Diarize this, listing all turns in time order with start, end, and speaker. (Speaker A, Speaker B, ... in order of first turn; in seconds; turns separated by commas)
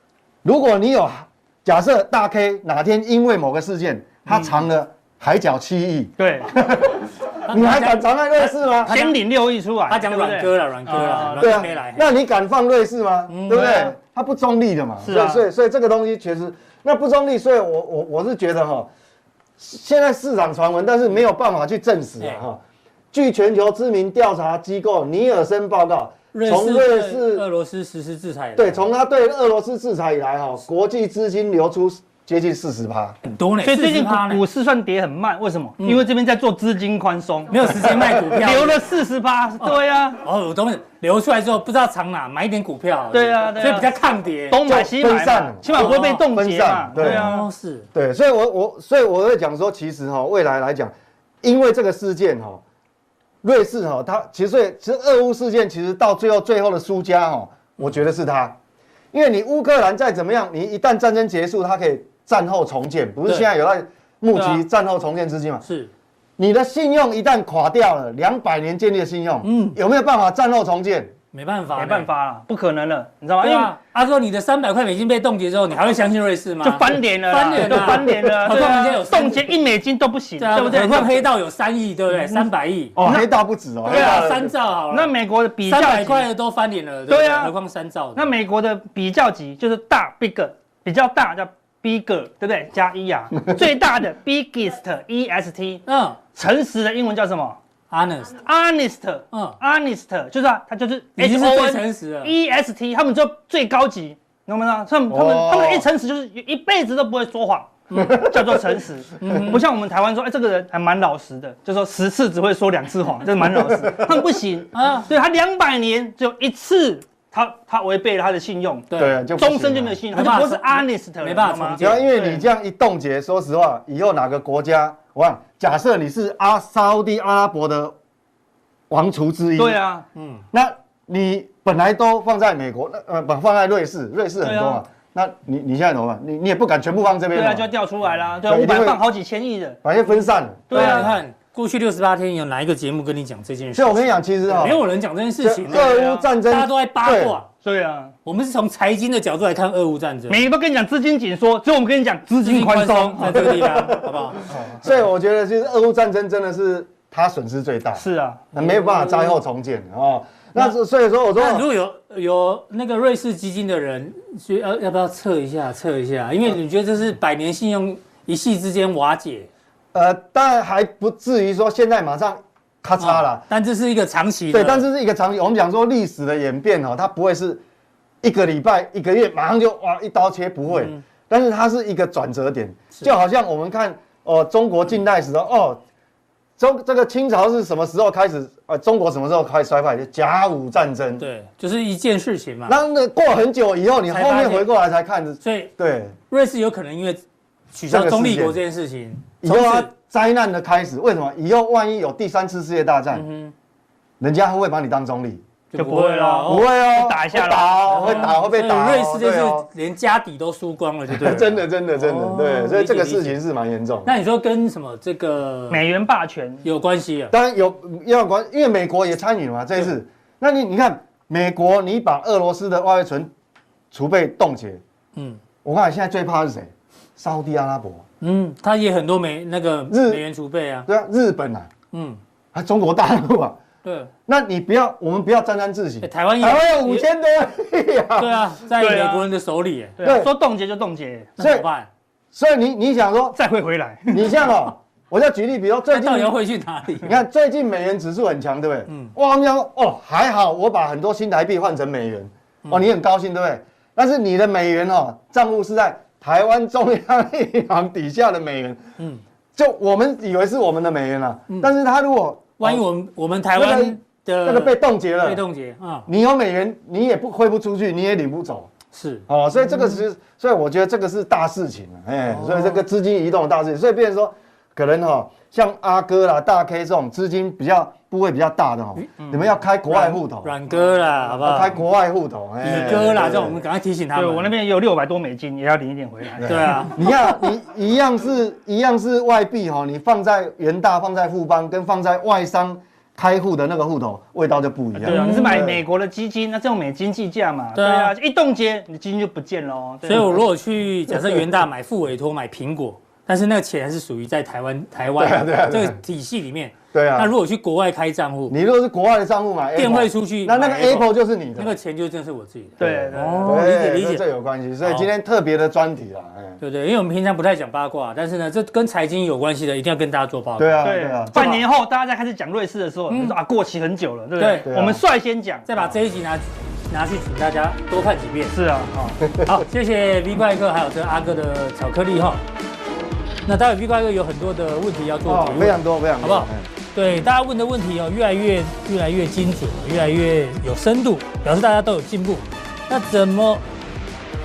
Speaker A: 0.4-8.9, Speaker B: 6.2-6.5, Speaker C: 7.5-8.0, Speaker B: 8.8-11.7, Speaker C: 8.8-9.2, Speaker C: 9.9-12.1, Speaker A: 11.4-18.9, Speaker C: 13.3-13.8, Speaker B: 13.5-13.9, Speaker B: 15.0-15.4, Speaker A: 19.6-22.6, Speaker A: 23.1-27.4, Speaker C: 26.3-28.8, Speaker A: 28.6-33.2, Speaker C: 33.2-34.4, Speaker B: 33.6-40.2, Speaker C: 37.5-38.8, Speaker C: 39.6-44.6, Speaker B: 43.1-43.9, Speaker B: 44.5-47.5, Speaker A: 44.6-47.3, Speaker C: 45.7-46.2, Speaker C: 47.0-47.9, Speaker A: 47.9-52.6, Speaker A: 53.4-58.6, Speaker A: 59.1-65.6, Speaker B: 64.3-64.6, Speaker C: 65.6-65.9, Speaker A: 66.4-71.1, Speaker C: 69.4-69.8, Speaker C: 71.3-72.1, Speaker B: 71.8-73.8, Speaker C: 73.4-79.5, Speaker B: 76.6-81.3, Speaker C: 80.4-83.0, Speaker B: 82.1-83.3, Speaker A: 83.0-84.5, Speaker C: 83.8-85.1, Speaker B: 83.8-84.4, Speaker B: 84.9-86.3, Speaker C: 85.6-88.3, Speaker B: 87.1-87.5, Speaker B: 88.2-95.8, Speaker C: 95.8-96.2, Speaker B: 96.3-97.6, Speaker C: 97.9-98.4, Speaker B: 98.3-122.5, Speaker C: 99.3-99.6, Speaker C: 101.2-102.3, Speaker A: 105.1-105.8, Speaker A: 107.9-108.7, Speaker C: 109.2-109.6, Speaker A: 113.6-114.1, Speaker C: 114.7-115.1, Speaker C: 118.9-119.2, Speaker A: 119.0-120.0, Speaker C: 120.1-122.1, Speaker A: 121.8-127.9, Speaker A: 128.9-129.8, Speaker B: 129.6-130.1, Speaker C: 130.1-130.4, Speaker A: 130.5-137.7, Speaker B: 134.4-134.8, Speaker B: 137.3-139.8, Speaker A: 138.4-139.0, Speaker A: 139.8-141.1, Speaker B: 140.7-141.2, Speaker C: 140.7-147.5, Speaker A: 143.7-144.8, Speaker A: 145.4-147.3, Speaker B: 145.7-146.0, Speaker B: 147.6-148.1, Speaker C: 148.2-150.4, Speaker B: 150.3-153.7, Speaker C: 152.4-154.4, Speaker A: 153.3-161.7, Speaker B: 157.9-158.6, Speaker C: 158.6-159.3, Speaker C: 161.4-169.5, Speaker A: 169.9-173.4, Speaker C: 173.0-174.8, Speaker A: 174.5-177.6, Speaker A: 178.2-185.8, Speaker C: 180.7-181.0, Speaker A: 186.6-191.2, Speaker C: 191.2-192.8, Speaker A: 192.7-196.1, Speaker C: 194.1-194.7, Speaker C: 195.4-195.7, Speaker C: 196.3-197.2, Speaker C: 197.7-199.9, Speaker A: 197.9-198.6, Speaker A: 199.4-203.2, Speaker C: 203.1-203.5, Speaker A: 204.2-205.4, Speaker C: 205.7-206.6, Speaker B: 205.8-208.3, Speaker A: 206.4-209.7, Speaker C: 207.9-213.3, Speaker A: 211.1-214.1, Speaker C: 214.0-215.8, Speaker B: 215.7-216.6, Speaker C: 216.6-217.3, Speaker A: 217.3-223.3, Speaker A: 223.9-224.8, Speaker A: 225.6-228.0, Speaker C: 228.2-230.9, Speaker A: 229.9-230.2, Speaker A: 230.8-231.7, Speaker C: 231.9-232.2, Speaker A: 232.5-233.6, Speaker C: 233.8-234.1, Speaker A: 234.3-238.4, Speaker C: 236.0-237.0, Speaker C: 238.2-240.0, Speaker B: 238.7-239.2, Speaker B: 240.0-241.3, Speaker A: 240.0-240.3, Speaker C: 241.4-241.9, Speaker A: 241.4-241.7, Speaker A: 242.3-243.4, Speaker B: 243.3-244.5, Speaker A: 244.1-246.3, Speaker C: 245.9-247.2, Speaker A: 247.0-258.8, Speaker C: 248.9-249.1, Speaker A: 259.5-262.8, Speaker C: 262.6-266.1, Speaker A: 263.5-265.4, Speaker A: 266.1-268.7, Speaker C: 268.9-269.9, Speaker A: 269.3-280.5, Speaker C: 272.3-272.8, Speaker C: 279.0-279.2, Speaker B: 279.2-279.5, Speaker C: 279.9-281.8, Speaker A: 281.4-283.6, Speaker C: 282.6-284.5, Speaker B: 284.1-287.0, Speaker A: 286.4-295.8, Speaker C: 286.5-287.2, Speaker B: 295.0-300.4, Speaker C: 295.0-295.6, Speaker C: 297.8-298.1, Speaker C: 300.1-308.6, Speaker A: 305.1-306.0, Speaker A: 306.9-307.3, Speaker A: 308.5-311.7, Speaker C: 309.8-314.2, Speaker B: 312.8-313.6, Speaker A: 312.8-316.6, Speaker C: 314.8-315.1, Speaker C: 316.6-320.9, Speaker A: 320.6-321.6, Speaker B: 320.8-325.7, Speaker C: 323.1-323.3, Speaker C: 324.4-324.7, Speaker A: 324.6-325.0, Speaker C: 325.7-328.5, Speaker B: 328.5-329.2, Speaker A: 329.3-329.6, Speaker C: 329.4-332.4, Speaker C: 333.4-343.6, Speaker A: 335.2-336.7